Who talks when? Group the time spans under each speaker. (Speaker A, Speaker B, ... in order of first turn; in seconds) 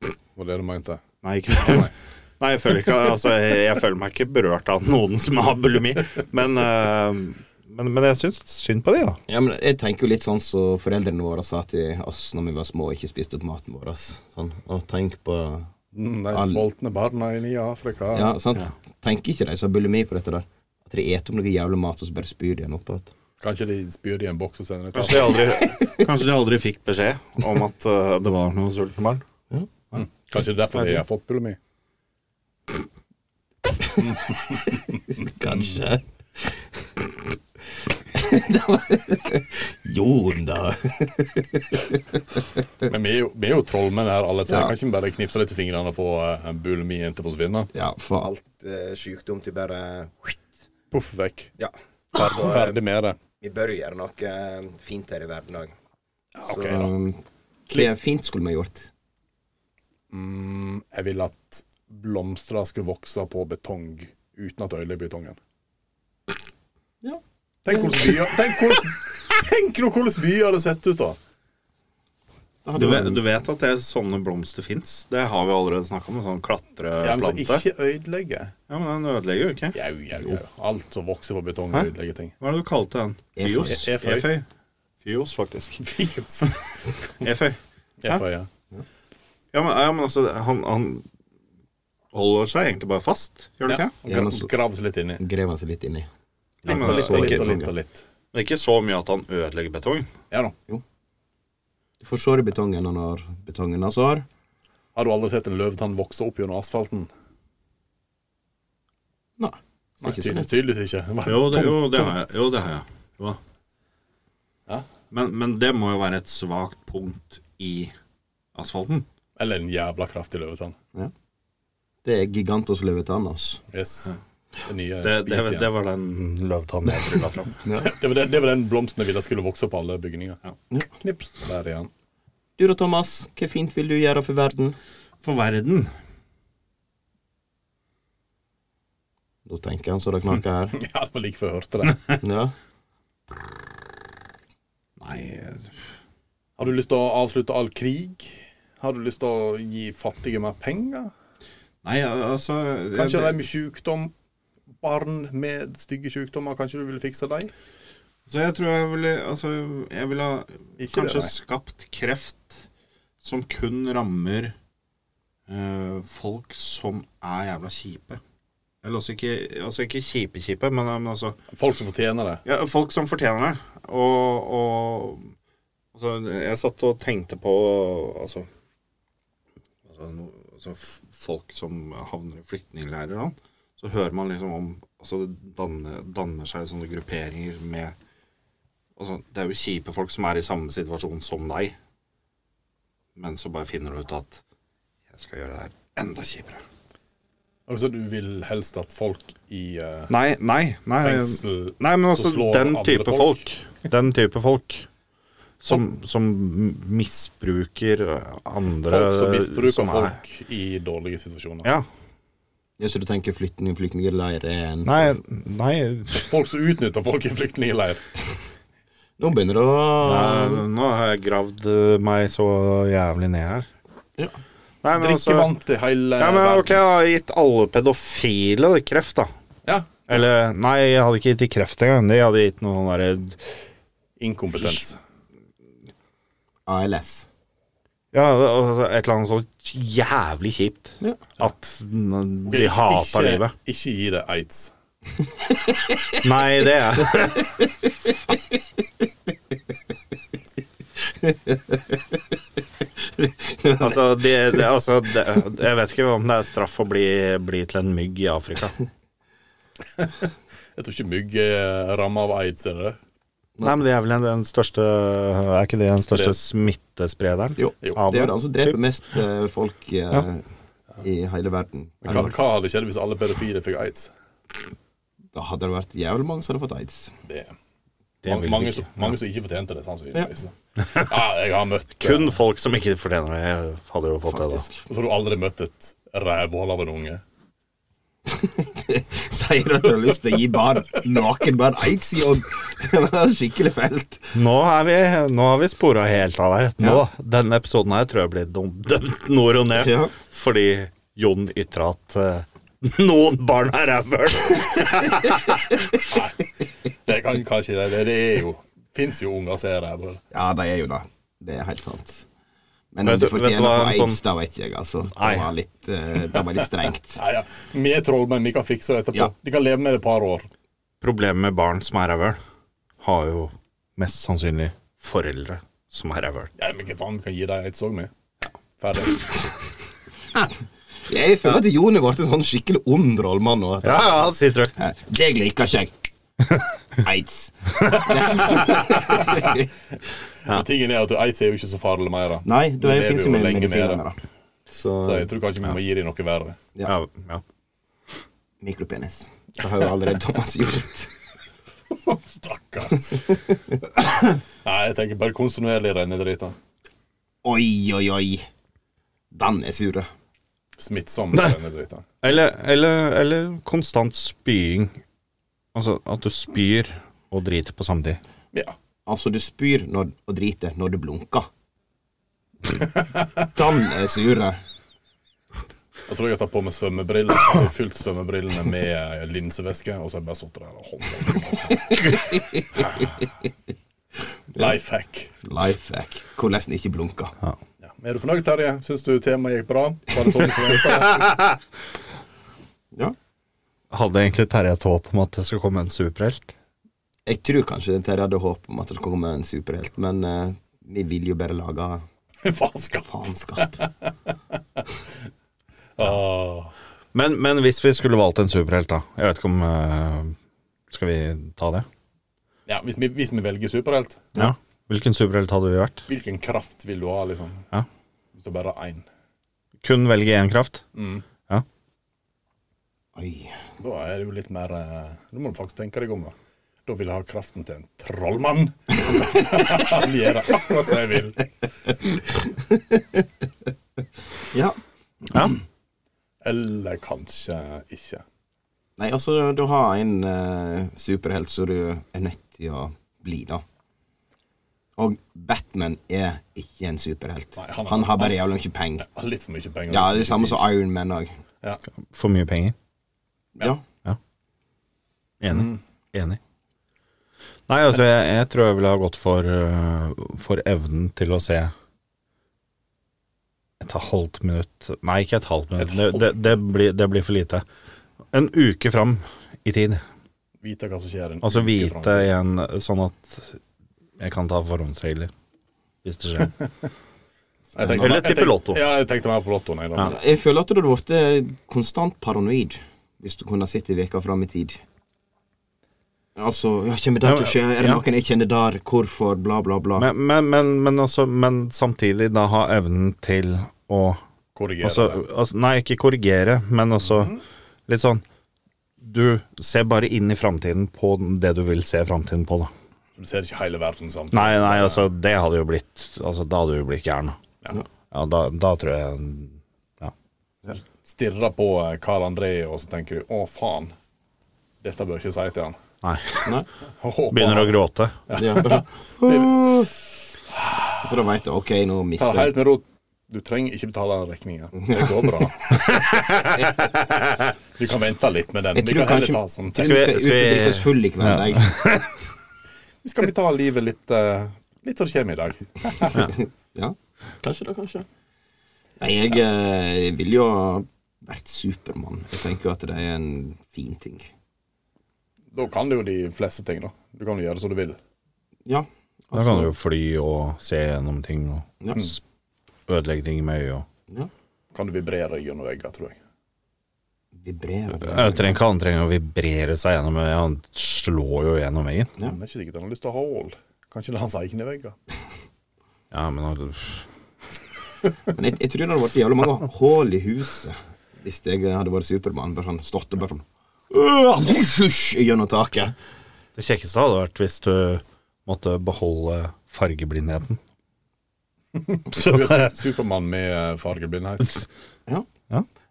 Speaker A: 0.3-1.0, 1.5-1.9, 15.9-18.3, 23.4-25.4, 29.9-31.6, 34.0-35.0, 42.8-47.7, 50.9-51.5, 52.1-53.2, 56.4-56.9, 60.1-65.4, 67.6-71.2, 77.0-78.5, 79.7-82.3, 83.6-84.3, 85.8-86.8, 88.0-88.5, 93.7-95.2, 96.6-98.0, 104.9-107.1, 110.0-112.4, 119.4-120.8, 123.7-124.1, 124.6-125.7, 127.8-130.4, 131.0-131.9, 140.8-142.2, 146.6-151.1, 152.9-154.1, 154.8-157.5, 160.8-161.3, 171.5-172.4, 197.7-200.1, 201.0-203.4, 208.8-211.7, 216.1-218.0, 224.9-226.8, 229.7-230.1, 234.2-235.0, 242.4-244.7, 259.9-263.0, 266.1-266.4, 272.0-274.1, 277.2-277.5, 278.2-282.3, 284.9-287.2, 306.0-310.2, 317.1-320.5, 326.6-328.1, 328.8-329.4, 338.3-339.5, 340.4-344.0, 345.0-346.6, 351.9-353.3, 354.6-356.6, 360.8-362.1, 372.8-373.3, 376.1-382.1, 382.7-383.1, 384.6-385.3, 387.8-391.3, 402.4-404.1, 406.0-406.7, 412.7-414.3, 416.1-417.6, 418.3-419.0, 420.9-421.2, 423.8-426.3, 426.9-431.4, 436.4-438.2, 447.6-448.4, 449.0-450.7, 455.5-455.8, 465.8-466.3, 470.6-472.3, 477.8-480.2, 494.5-495.2, 503.2-505.1, 511.0-513.9, 514.8-515.8, 517.0-517.8, 518.3-520.0, 520.5-521.0, 522.2-526.1, 527.8-530.1, 533.0-536.3, 545.5-548.0, 554.7-556.2, 562.2-565.0, 581.7-584.6
Speaker B: 1.2-9.2, 24.9-29.2, 30.7-31.0, 72.7-77.6, 78.7-79.8, 82.4-84.5, 85.0-85.8, 87.2-88.2, 89.5-91.0, 92.1-93.9, 96.6-97.6, 98.3-100.1, 111.2-113.4, 115.1-117.9, 118.5-119.0, 125.0-127.6, 135.2-135.9, 145.0-145.8, 151.8-153.4, 158.3-162.7, 163.2-164.6, 165.5-168.2, 168.8-171.4, 172.4-175.3, 175.9-178.4, 179.8-187.9, 189.0-191.8, 193.2-194.4, 195.1-196.6, 200.1-204.9, 205.6-210.2, 214.8-216.3, 220.0-223.7, 224.8-225.5, 226.2-229.3, 230.1-233.6, 238.1-243.5, 246.2-247.6, 253.8-258.8, 263.6-268.7, 278.2-279.1, 282.0-284.6, 294.3-305.9, 313.0-314.2, 315.1-315.5, 321.0-322.4, 323.0-326.5, 333.8-334.7, 346.9-347.4, 362.2-365.0, 365.7-368.2, 393.9-396.5, 407.1-410.3, 410.9-411.9, 414.4-416.1, 419.8-420.8, 452.1-452.7, 455.4-456.4, 457.7-461.7, 463.8-467.6, 468.3-470.0, 471.4-473.6, 474.2-475.3, 476.0-476.5, 478.0-478.8, 487.2-488.0, 490.0-494.2, 494.8-497.3, 497.9-498.2, 499.0-502.7, 504.3-507.4, 508.1-510.1, 516.0-516.5, 517.3-518.2, 525.8-527.3, 529.8-532.1, 549.3-552.2, 552.9-553.9, 558.1-562.1, 566.1-567.0, 576.5-580.6, 582.1-582.7
Speaker C: 9.3-15.7, 16.3-16.6, 18.1-23.1, 25.5-26.1, 33.8-34.2, 34.9-36.6, 38.1-42.2, 44.5-44.7, 47.7-50.4, 51.6-52.8, 53.4-55.7, 56.4-58.9, 67.0-68.3, 72.6-73.2, 83.3-83.8, 94.0-94.5, 95.2-96.1, 96.7-97.7, 102.0-104.2, 109.4-110.6, 122.0-123.6, 127.6-127.9, 132.6-134.8, 139.4-140.8, 142.2-142.5, 212.8-215.2, 219.2-220.6, 236.7-237.3, 245.4-246.2, 247.1-247.7, 251.1-252.2, 253.1-254.0, 267.6-270.4, 271.0-272.3, 275.3-277.1, 284.3-284.8, 288.3-294.3, 299.7-300.1, 310.3-312.2, 312.9-317.2, 331.1-335.9, 337.0-339.7, 342.4-344.2, 344.7-345.3, 348.6-351.1, 353.3-353.8, 357.4-358.5, 359.3-360.1, 369.1-371.5, 373.4-374.6, 381.9-383.2, 385.4-387.4, 397.2-402.0, 403.1-403.8, 423.1-423.6, 432.3-433.2, 434.5-434.8, 439.0-443.6, 445.0-449.1, 449.9-451.3, 453.6-453.8, 477.7-478.2, 480.0-484.8, 486.4-490.1, 518.3-519.9, 521.0-522.5, 524.8-525.7, 528.7-531.7, 536.0-538.0, 539.0-544.3, 548.6-549.7, 551.8-552.1, 557.3-558.6, 568.3-575.9